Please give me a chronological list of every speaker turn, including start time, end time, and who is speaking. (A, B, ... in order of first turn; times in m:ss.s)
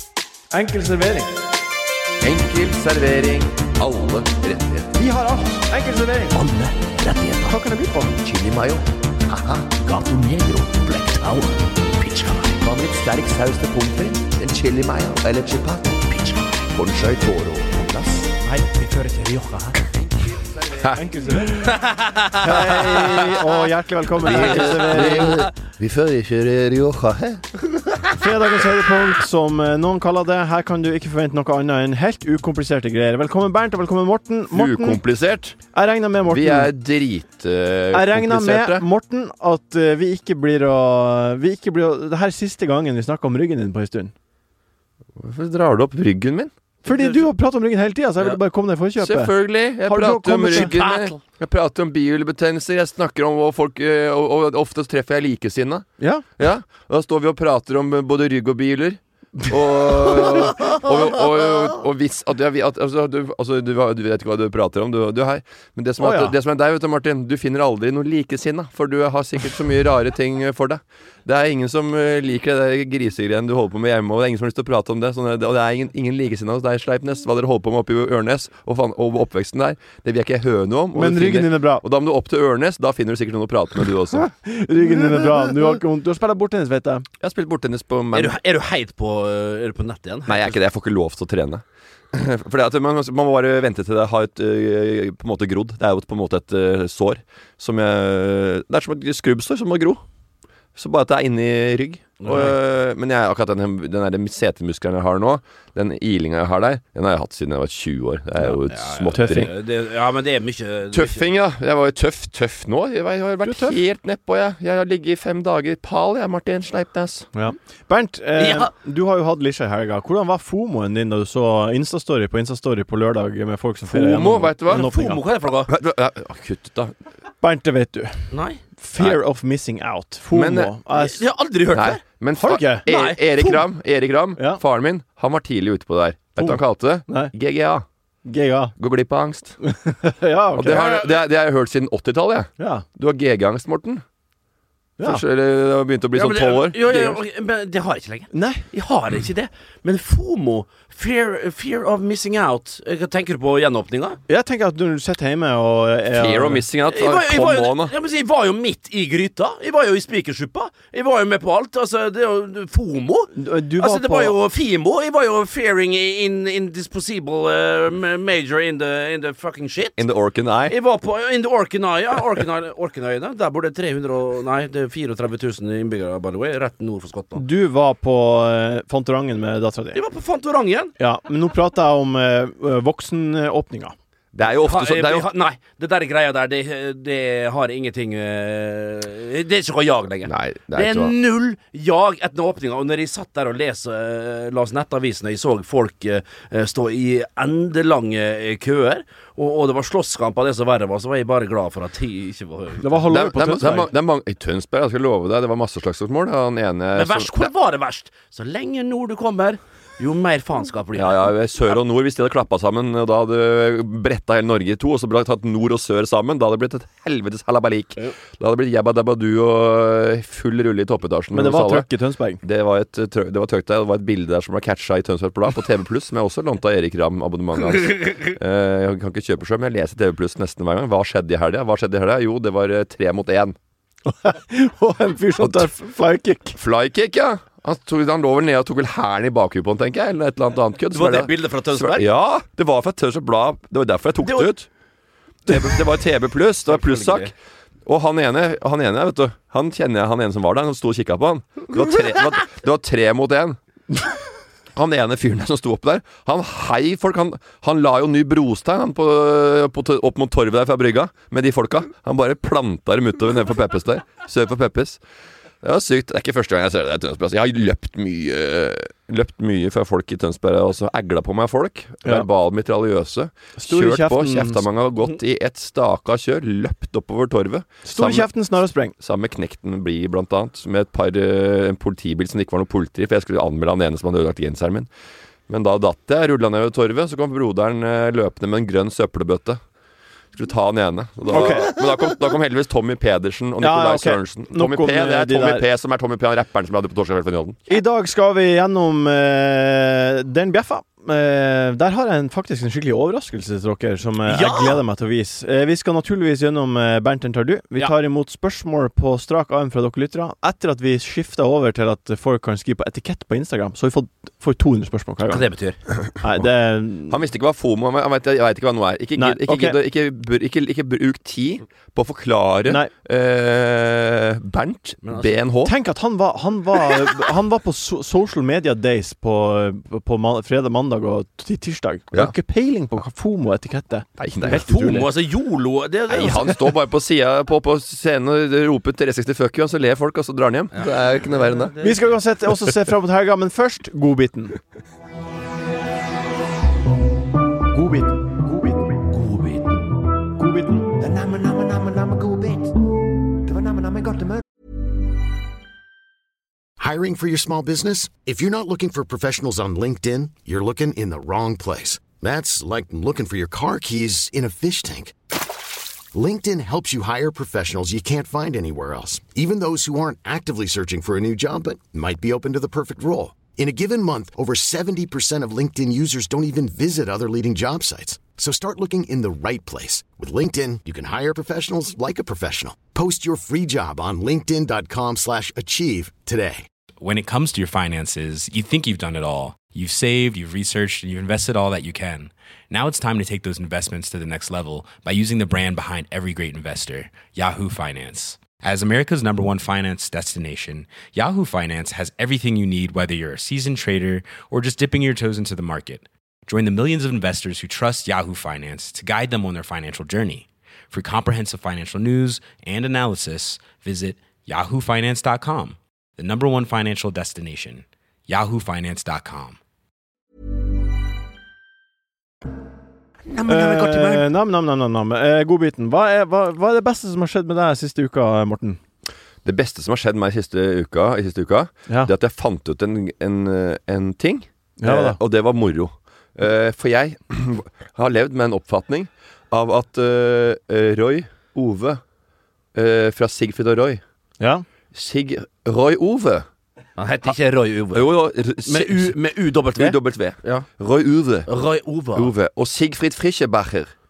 0:00.5-0:01.3 A
0:02.2-0:04.9 B
0:05.0-0:06.4 A
0:06.3-0:07.6 C
0:07.5-0:08.2 A
0:08.2-0:09.7 B
0:09.8-0:12.6 C
0:12.6-0:16.2 B
0:16.1-0:16.7 C
0:16.7-0:18.3 B
0:18.4-0:19.8 C
0:19.8-0:21.1 B
0:20.9-0:25.4 A
0:21.6-0:23.2 C
0:24.2-0:25.5 C
0:24.2-0:28.1 B
0:28.1-0:35.0 A
0:34.5-0:35.6 B
0:35.7-0:36.7 A
0:36.3-0:38.8 B
0:37.9-0:44.1 A
0:45.2-0:46.5 B
0:46.8-0:47.3 C
0:46.8-0:49.3 A
0:49.0-0:55.9 B
0:49.8-0:50.7 A
0:50.5-0:51.2 C
0:56.0-0:56.2 A
0:56.4-1:24.3 B
0:59.4-1:00.6 A
1:06.0-1:06.4 A
1:20.9-1:21.8 A
1:24.2-1:27.0 A
1:27.2-1:28.3 B
1:28.1-1:30.6 C
1:30.3-1:40.0 B
1:40.8-1:49.5 B
1:42.2-1:42.5 C
1:48.7-1:51.2 C
1:49.1-1:49.5 A
1:50.9-1:57.3 B
1:53.4-1:53.8 A
1:57.3-2:05.2 A
1:58.4-1:58.7 C
2:03.9-2:04.9 B
2:04.7-2:05.7 C
2:05.7-2:06.9 B
2:07.4-2:11.2 A
2:08.3-2:08.6 C
2:10.3-2:10.7 B
2:10.9-2:12.0 C
2:11.7-2:17.8 B
2:12.4-2:12.8 A
2:12.8-2:13.6 C
2:16.4-2:17.3 A
2:18.2-2:18.7 A
2:18.8-2:19.6 B
2:19.6-2:21.0 A
2:20.5-2:24.0 B
2:22.6-2:22.8 A
2:25.0-2:25.2 A
2:25.0-2:27.2 B
2:26.1-2:34.2 C
2:28.3-2:28.6 A
2:34.3-2:36.6 A
2:36.1-2:37.9 B
2:36.9-2:50.0 C
2:43.3-2:44.4 A
2:50.0-2:50.7 B
2:50.7-2:57.4 C
2:57.3-3:00.0 A
2:59.9-3:00.9 C
3:01.0-3:03.9 A
3:04.3-3:05.3 B
3:04.6-3:23.0 C
3:10.2-3:11.1 B
3:22.8-3:23.9 A
3:23.0-3:27.5 B
3:26.9-3:31.3 C
3:31.0-3:41.9 B
3:41.3-3:42.4 A
3:42.4-3:53.6 B
3:54.0-3:56.6 A
3:55.4-3:55.7 B
3:56.5-4:04.7 B
4:00.9-4:02.1 C
4:04.2-4:04.5 C
4:05.5-4:07.3 B
4:06.6-4:07.3 C
4:07.8-4:13.6 B
4:14.7-4:25.0 B
4:25.6-4:38.3 B
4:33.6-4:34.6 A
4:37.8-4:38.9 A
4:39.0-4:44.9 B
4:45.5-4:49.6 B
4:50.3-4:57.6 B
4:51.3-4:51.7 A
4:53.6-4:55.6 A
4:57.7-5:15.4 A
5:04.3-5:04.8 C
5:15.3-5:15.8 C
5:16.2-5:17.2 A
5:17.1-5:25.7 B
5:19.2-5:19.8 A
5:25.0-5:25.4 C
5:25.6-5:35.1 A
5:34.2-5:34.6 B
5:34.4-5:36.6 C
5:36.1-5:41.7 B
5:40.7-5:42.0 C
5:41.8-5:44.6 A
5:47.7-5:49.0 A
5:49.1-5:49.8 C
5:50.4-5:51.0 A
5:51.0-5:52.7 B
5:53.4-5:54.4 B
5:56.8-6:05.1 D
6:06.1-6:26.6 D
6:27.0-6:59.6 E
7:03.3-7:04.2 C
7:03.5-7:08.8 A
7:09.4-7:22.0 B
7:14.8-7:15.2 A
7:22.7-7:24.0 B
7:24.9-7:26.4 B
7:27.0-7:28.1 C
7:27.9-7:29.2 B
7:28.6-7:30.6 C
7:29.7-7:31.5 B
7:31.4-7:32.3 C
7:32.1-7:33.9 B